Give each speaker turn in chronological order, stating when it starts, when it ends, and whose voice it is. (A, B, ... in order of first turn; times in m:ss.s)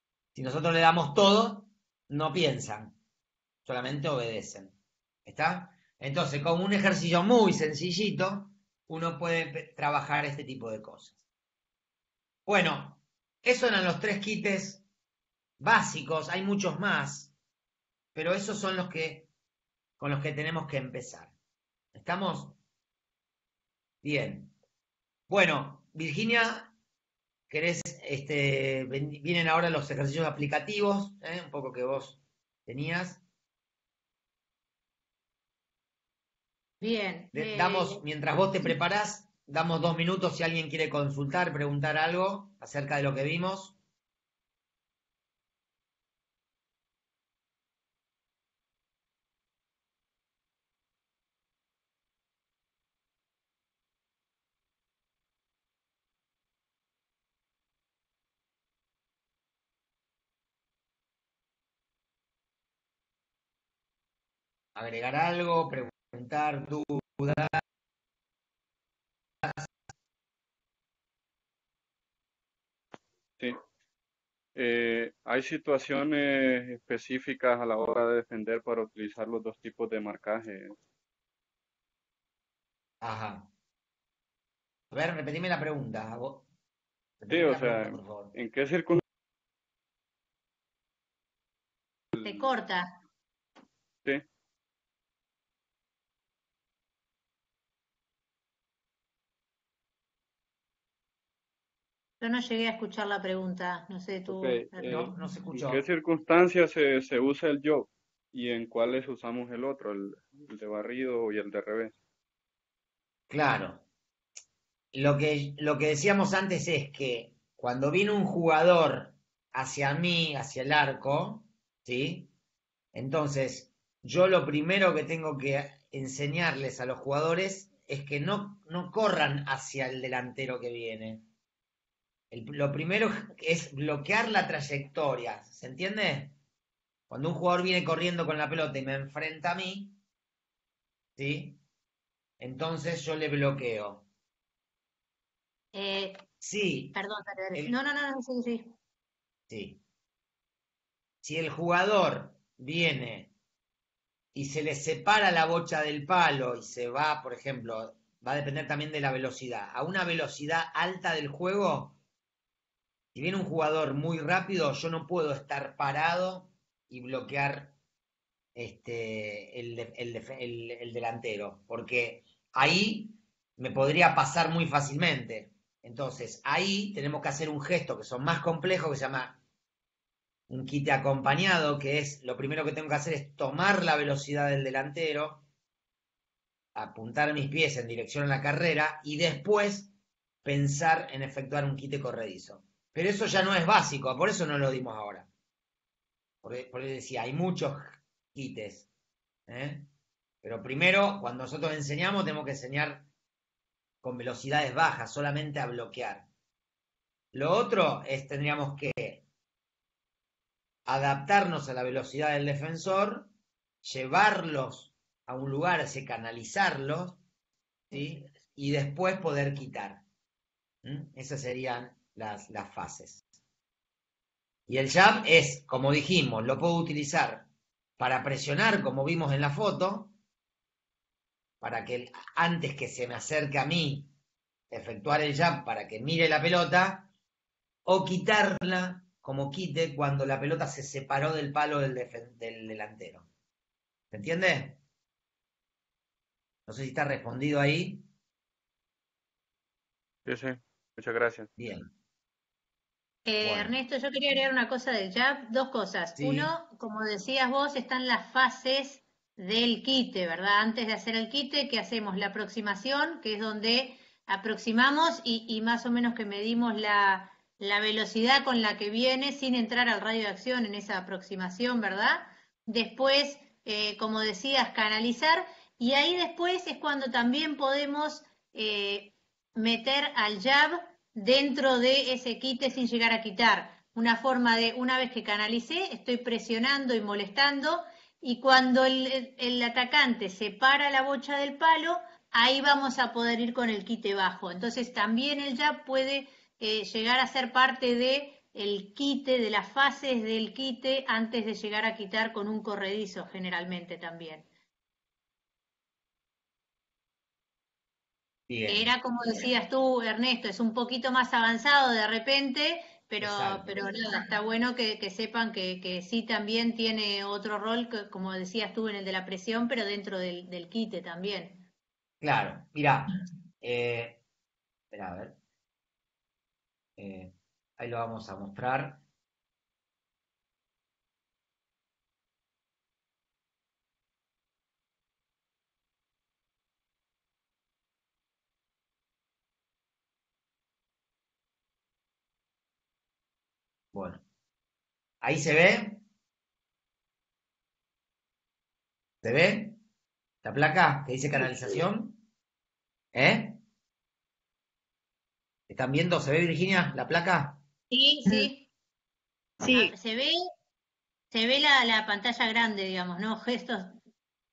0:00.3-0:03.0 A
0:03.6-0:04.7 A
0:05.2-0:11.2 A
0:12.4-0:14.8 A
0:15.6-0:17.3 A
0:18.1-0:19.3 A
0:20.0-0:21.3 A
0:21.9-0:22.6 A
0:24.0-0:24.5 A
0:25.3-0:26.7 A
0:27.5-0:33.2 A
0:36.8-0:38.0 B
0:37.3-0:43.8 A
1:04.8-1:07.6 A
1:09.4-1:09.7 A
1:14.6-1:20.8 C
1:23.0-1:23.5 A
1:24.9-1:26.4 A
1:27.2-1:28.3 A
1:27.3-1:29.0 C
1:32.1-1:32.4 C
1:32.2-1:32.9 B
1:42.2-1:45.1 B
1:44.3-1:52.0 C
1:44.8-1:45.8 A
1:53.3-1:53.8 A
1:54.9-2:02.3 A
2:02.9-2:11.2 A
2:12.3-2:16.4 A
2:17.1-2:19.9 A
2:21.2-2:21.6 A
2:22.4-2:24.0 A
2:25.7-2:26.2 B
2:26.4-2:27.0 A
2:26.9-2:28.7 B
2:29.5-2:29.8 A
2:31.2-2:33.3 A
2:34.3-2:42.0 A
2:43.1-2:47.7 A
2:48.5-2:59.4 A
3:00.5-3:05.4 A
3:06.7-3:09.9 A
3:10.4-3:15.3 A
3:16.4-3:18.9 A
3:19.5-3:19.9 A
3:20.4-3:23.0 A
3:24.0-3:26.2 A
3:27.3-3:29.2 A
3:30.9-3:33.3 A
3:33.8-3:37.2 A
3:37.9-3:40.0 A
3:40.8-3:43.2 A
3:44.7-3:47.5 A
3:48.0-3:50.1 A
3:51.6-3:54.1 A
3:54.7-3:57.1 A
3:57.8-4:03.2 A
4:04.1-4:04.8 A
4:06.7-4:08.1 A
4:10.2-4:11.5 C
4:11.6-4:11.9 A
4:13.2-5:04.4 B
4:13.4-4:13.7 A
4:16.2-4:16.5 A
5:08.5-5:08.9 A
5:08.7-5:21.6 B
5:13.2-5:13.8 A
5:22.2-5:24.2 A
5:24.9-5:25.4 A
5:27.0-5:29.0 A
5:43.9-5:44.2 A
5:45.2-5:46.0 A
5:49.2-5:49.8 A
5:50.4-5:52.2 A
5:53.1-5:53.6 A
5:55.7-5:57.6 A
5:57.9-5:58.7 B
5:59.7-6:00.4 B
6:01.3-6:04.0 B